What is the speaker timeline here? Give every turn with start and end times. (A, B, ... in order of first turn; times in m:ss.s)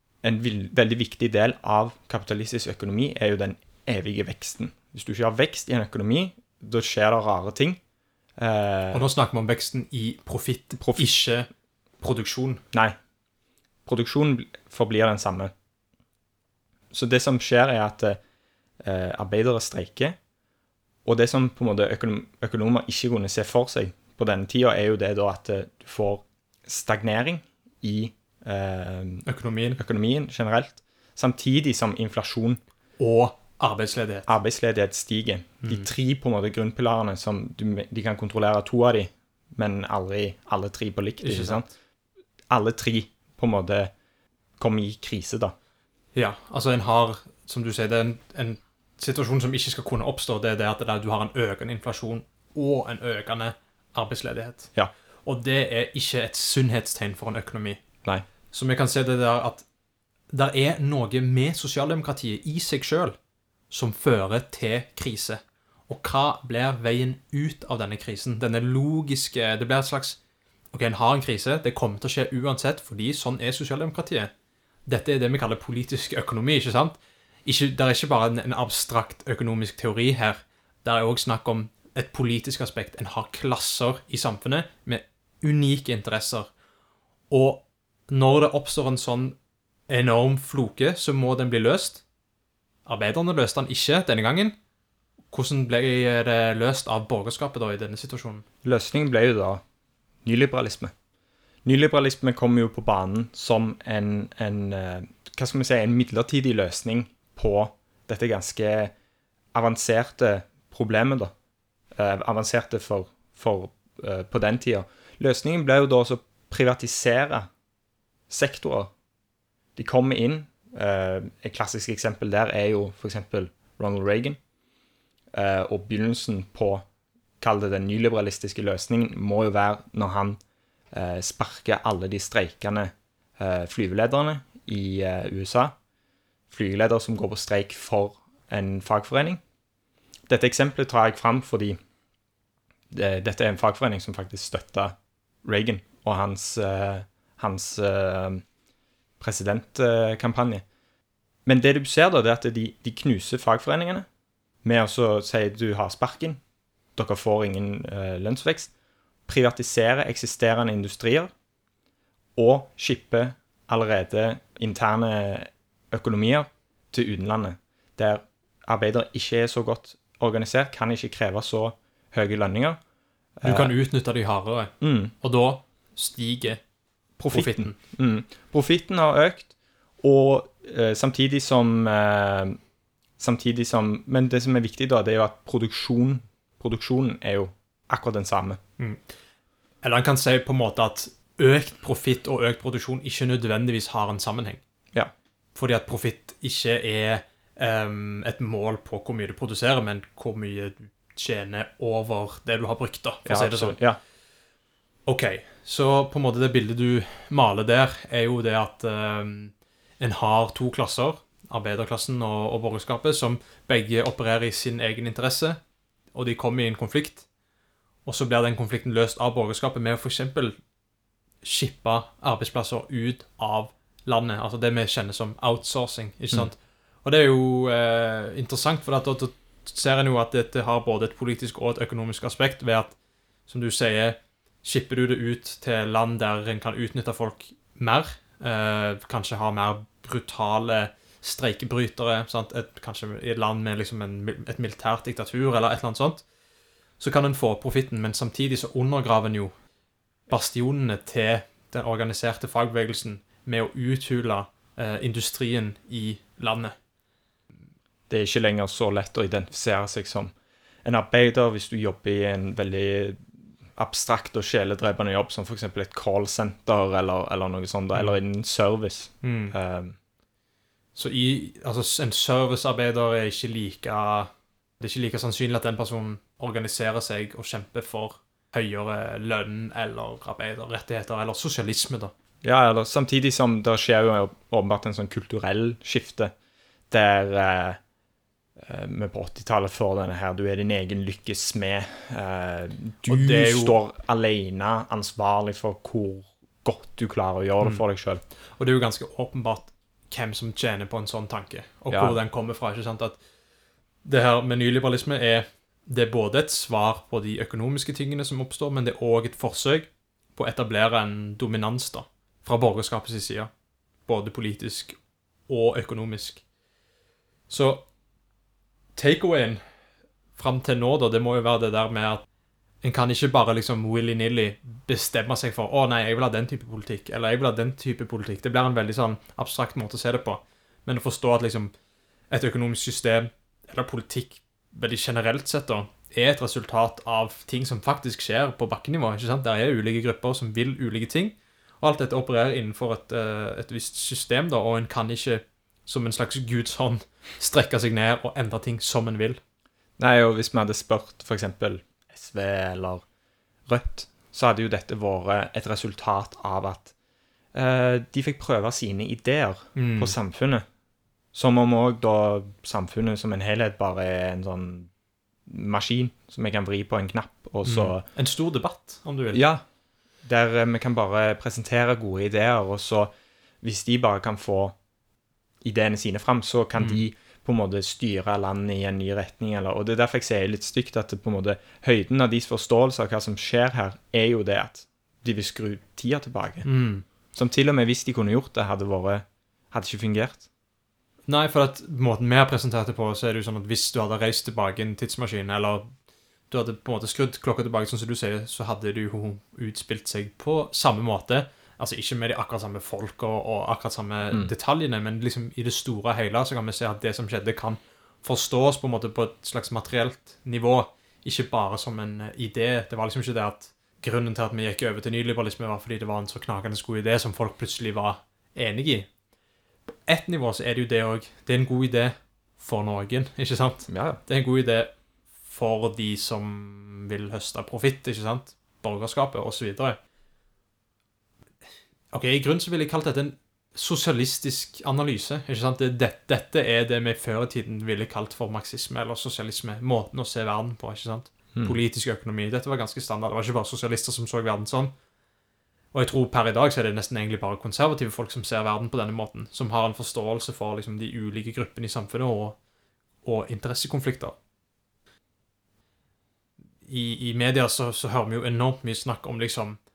0:00.2-0:07.8 A
0:08.4-0:09.1 A
0:08.9-0:11.5 B
0:10.8-0:11.1 A
0:12.0-0:12.6 B
0:13.8-0:15.5 A
0:16.9-0:18.2 A
0:18.8-0:20.2 A
0:21.0-0:32.6 A
0:29.2-0:29.8 B
0:33.0-0:34.3 B
0:34.3-0:41.7 A
0:35.6-0:35.9 B
0:41.2-0:41.6 B
0:42.5-0:43.9 A
0:44.6-0:45.5 A
0:46.1-0:54.7 B
0:55.2-0:57.8 B
0:58.5-0:59.6 B
1:00.3-1:03.2 B
1:03.7-1:10.2 B
1:10.7-1:14.3 B
1:14.9-1:26.5 B
1:27.3-1:29.4 B
1:29.9-1:32.0 B
1:32.8-1:34.5 B
1:35.3-1:38.4 B
1:38.6-1:39.6 A
1:40.2-1:40.9 A
1:41.6-1:48.9 A
1:49.5-1:51.3 A
1:51.9-1:57.5 A
1:58.3-1:58.9 A
1:59.8-2:04.4 A
2:05.3-2:06.8 A
2:07.4-2:10.4 A
2:10.9-2:15.7 A
2:16.5-2:19.4 A
2:20.3-2:21.8 A
2:22.9-2:28.4 A
2:29.2-2:30.6 A
2:31.4-2:34.0 A
2:34.6-2:36.4 A
2:37.0-2:38.7 A
2:39.3-2:41.3 A
2:42.4-2:52.8 A
2:53.4-2:53.7 A
2:53.4-2:56.6 B
2:54.8-2:55.1 A
2:57.2-3:02.6 A
2:57.3-2:57.8 B
3:03.2-3:08.6 A
3:09.8-3:14.6 B
3:15.5-3:23.8 B
3:23.2-3:24.0 A
3:25.0-3:35.6 B
3:36.1-3:37.2 B
3:38.0-3:40.5 B
3:41.4-3:53.0 B
3:53.5-4:06.2 B
4:07.0-4:09.5 B
4:10.3-4:16.7 B
4:18.1-4:20.3 A
4:20.8-4:23.2 A
4:23.8-4:30.0 A
4:29.2-4:29.5 B
4:30.9-4:42.1 B
4:42.4-4:46.3 A
4:46.9-4:47.8 A
4:48.6-4:58.2 A
4:53.0-4:53.8 B
4:58.6-5:03.2 B
5:01.9-5:02.2 A
5:04.0-5:13.5 B
5:14.1-5:14.9 B
5:15.5-5:16.4 B
5:17.5-5:17.8 B
5:19.0-5:19.6 B
5:20.4-5:22.2 B
5:22.8-5:31.7 B
5:32.3-5:49.4 B
5:50.0-5:53.0 A
5:53.7-5:56.9 A
5:57.5-6:00.6 A
5:59.8-6:00.1 B
6:01.3-6:04.9 A
6:05.4-6:08.0 A
6:07.6-6:09.4 B
6:09.3-6:09.6 A
6:10.2-6:14.8 A
6:15.6-6:26.6 A
6:16.8-6:17.0 B
6:26.6-6:27.0 B
6:27.3-6:30.4 A
6:31.3-6:35.9 B
6:36.5-6:59.1 B
7:00.0-7:04.9 B
7:03.9-7:04.2 A
7:05.4-7:10.0 B
7:12.1-7:24.9 B
7:25.9-7:32.6 B
7:33.2-7:34.3 B
7:36.8-7:39.8 B